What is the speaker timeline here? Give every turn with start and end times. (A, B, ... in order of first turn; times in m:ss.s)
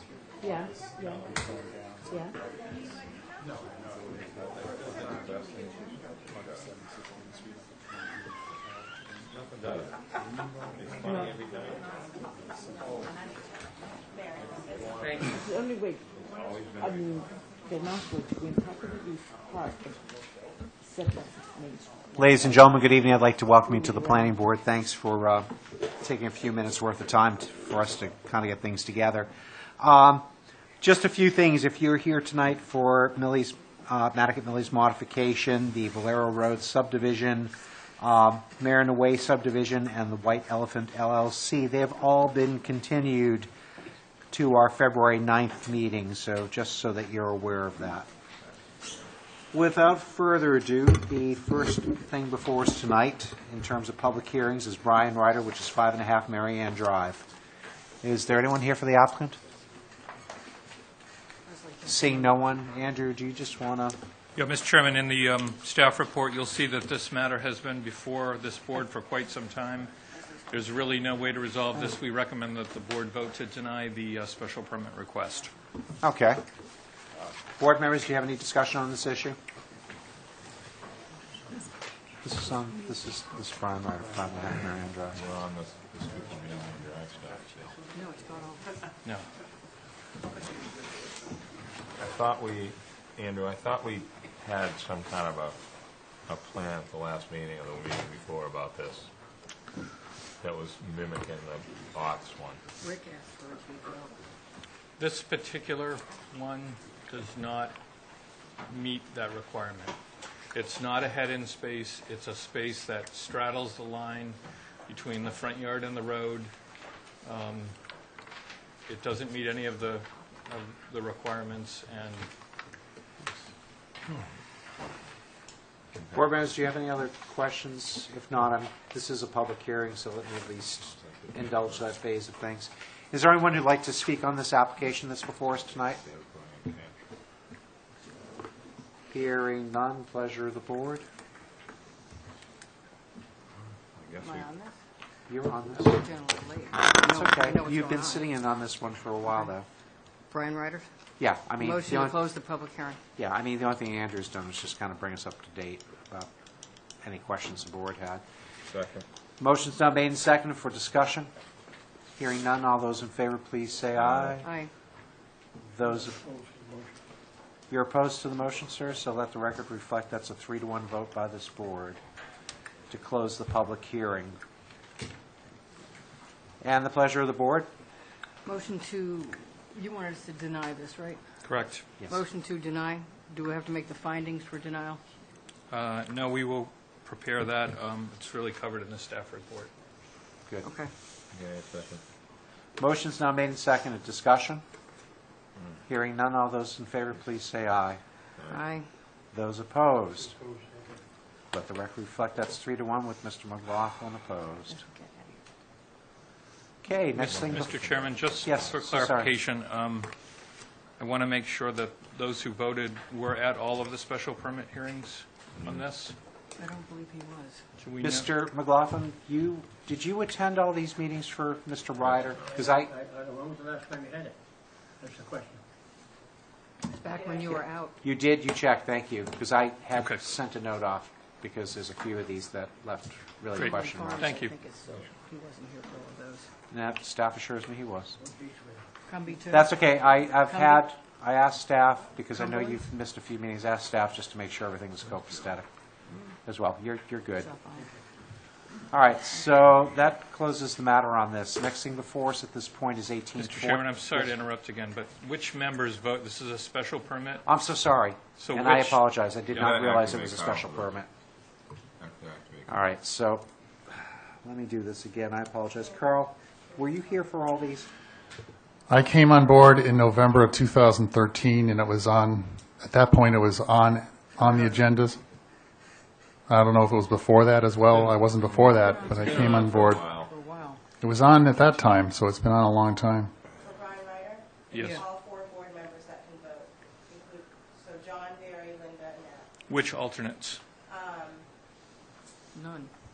0:00.4-0:01.3 A
0:02.0-0:02.3 A
0:04.4-0:06.6 B
0:09.3-0:09.9 B
0:10.8-0:11.6 B
0:11.0-0:11.4 A
0:14.1-0:14.9 C
0:15.1-0:16.0 A
0:16.4-0:17.0 B
0:16.8-0:20.0 A
0:20.8-0:22.5 A
0:22.1-0:30.2 D
0:23.6-0:24.3 A
0:30.8-0:43.5 D
0:44.3-0:48.1 D
0:49.5-0:57.2 D
0:58.0-0:59.4 D
1:01.4-1:02.3 E
1:01.8-1:04.0 D
1:04.4-1:09.9 F
1:10.5-1:15.5 F
1:16.0-1:16.4 D
1:17.6-1:19.4 D
1:22.2-1:25.2 D
1:25.1-1:27.8 B
1:27.9-1:28.7 E
1:32.0-1:35.6 B
1:36.3-1:39.1 B
1:40.4-1:42.6 B
1:42.8-1:44.1 E
1:45.0-1:47.7 F
1:48.7-1:49.9 F
1:50.5-1:56.5 F
1:57.2-1:57.7 F
1:58.8-2:02.3 F
2:06.1-2:16.0 D
2:10.8-2:11.9 B
2:15.9-2:16.9 B
2:19.1-2:21.0 D
2:23.6-2:24.5 B
2:24.2-2:24.8 E
2:25.3-2:26.0 D
2:25.7-2:28.3 E
2:27.0-2:29.6 D
2:30.3-2:30.9 E
2:31.2-2:32.2 D
2:31.6-2:33.0 E
2:33.2-2:36.3 D
2:37.0-2:38.2 D
2:38.7-2:39.0 B
2:39.4-2:41.3 D
2:42.2-2:44.4 D
2:44.0-2:44.4 B
2:44.4-2:44.7 E
2:45.7-2:46.1 D
2:45.8-2:47.0 G
2:47.7-2:52.0 D
2:52.9-2:54.4 D
2:56.6-2:57.7 D
2:58.4-3:01.2 E
3:01.4-3:01.8 F
3:02.1-3:05.0 E
3:05.7-3:09.7 F
3:10.6-3:10.9 E
3:11.3-3:12.0 B
3:12.8-3:14.6 D
3:15.9-3:18.0 D
3:18.5-3:18.8 E
3:19.3-3:20.3 D
3:20.2-3:21.0 G
3:21.5-3:24.8 D
3:24.7-3:25.4 E
3:26.8-3:29.3 D
3:27.2-3:30.1 F
3:27.3-3:28.7 B
3:31.0-3:36.1 F
3:36.6-3:37.6 E
3:37.8-3:38.3 F
3:38.0-3:42.9 D
3:42.0-3:42.5 B
3:42.6-3:44.4 G
3:45.0-3:45.6 G
3:46.9-3:48.0 E
3:48.0-3:54.4 D
3:50.0-3:50.2 F
3:53.5-3:54.5 F
3:53.6-3:56.5 E
3:56.7-3:58.2 D
3:58.2-3:58.8 G
3:59.1-4:00.8 E
3:59.5-4:05.7 D
4:02.4-4:02.8 E
4:06.4-4:07.5 D
4:07.4-4:07.9 E
4:08.9-4:14.3 D
4:13.4-4:17.4 F
4:17.4-4:21.1 D
4:18.4-4:20.0 F
4:19.5-4:21.0 B
4:22.0-4:22.8 B
4:22.7-4:27.9 D
4:25.8-4:26.1 C
4:26.6-4:27.3 C
4:28.9-4:35.2 H
4:36.5-4:40.0 H
4:37.9-4:40.3 B
4:38.7-4:40.8 E
4:41.0-4:43.3 H
4:43.6-4:49.5 C
4:44.7-4:45.0 F
4:44.8-4:45.0 E
4:49.7-4:50.6 F
4:50.9-4:51.5 C
4:52.5-4:52.9 E